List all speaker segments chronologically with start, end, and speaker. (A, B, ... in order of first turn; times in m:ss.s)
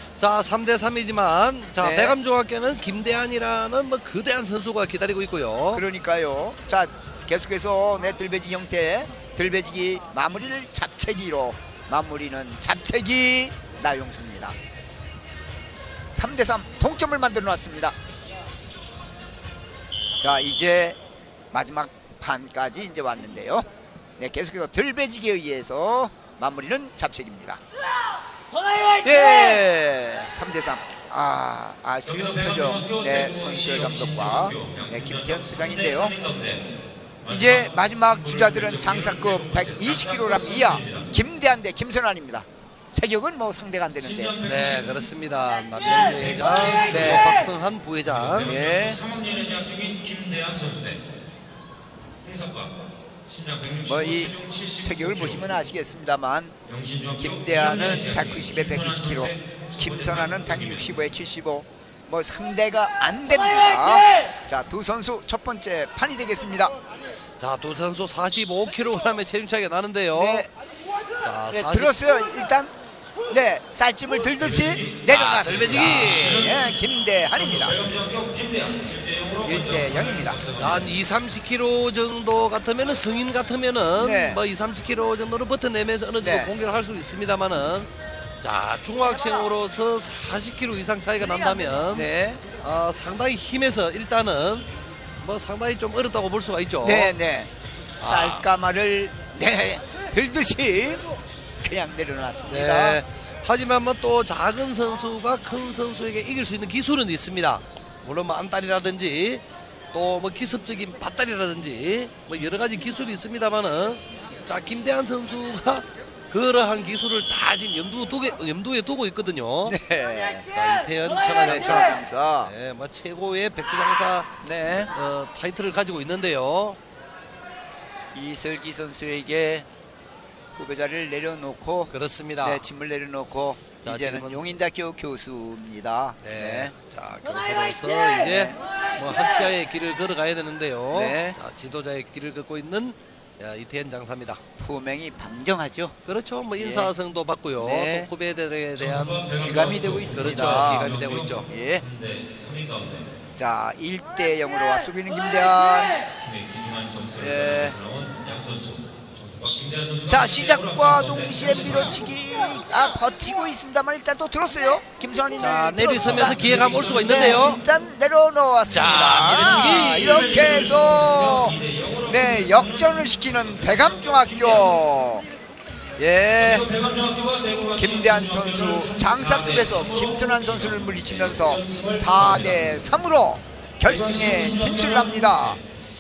0:00.2-0:05.8 A
0:01.8-0:02.2 B
0:05.7-0:14.6 B
0:16.1-0:18.0 B
0:20.2-0:21.0 B
0:21.5-0:23.7 B
0:24.2-0:27.6 B
0:29.0-0:36.2 B
0:32.1-0:36.7 C
0:37.3-0:44.4 B
0:37.3-0:41.1 C
0:44.2-0:45.0 C
0:44.4-0:48.5 A
0:46.0-0:47.4 C
0:46.9-0:47.3 B
0:48.3-0:51.1 C
0:48.4-0:49.0 B
0:52.2-0:55.5 C
0:53.9-0:56.6 B
0:56.7-1:00.7 C
0:57.2-1:06.7 B
1:07.4-1:10.5 A
1:10.2-1:10.5 B
1:11.2-1:12.0 A
1:11.5-1:12.7 B
1:13.3-1:17.8 B
1:14.6-1:16.8 C
1:15.1-1:16.6 A
1:17.4-1:20.9 C
1:19.4-1:20.4 B
1:20.6-1:27.9 A
1:24.0-1:24.4 B
1:26.2-1:26.5 B
1:28.4-1:32.1 A
1:31.9-1:32.4 B
1:32.6-1:34.7 A
1:35.2-1:37.2 A
1:36.8-1:41.0 B
1:38.0-1:38.4 A
1:41.6-1:43.0 B
1:42.5-1:59.8 A
1:59.7-2:00.5 B
2:00.5-2:06.8 A
2:01.4-2:02.5 B
2:04.4-2:04.9 B
2:08.1-2:09.7 B
2:10.6-2:16.7 B
2:11.9-2:12.6 A
2:13.8-2:14.4 A
2:16.2-2:24.4 A
2:18.2-2:18.6 B
2:20.9-2:21.4 B
2:24.6-2:26.0 B
2:26.0-2:29.3 A
2:26.6-2:26.9 B
2:27.6-2:28.1 B
2:28.8-2:33.1 C
2:29.4-2:30.9 B
2:30.2-2:31.5 A
2:31.5-2:31.8 B
2:33.4-2:36.0 B
2:36.2-2:42.1 C
2:37.2-2:37.8 B
2:40.1-2:55.2 B
2:45.4-2:47.6 A
2:46.3-2:47.2 C
2:48.7-2:50.4 A
2:49.4-2:54.5 C
2:56.0-2:56.7 B
2:56.5-3:02.7 C
2:57.8-3:05.6 B
3:03.9-3:05.6 C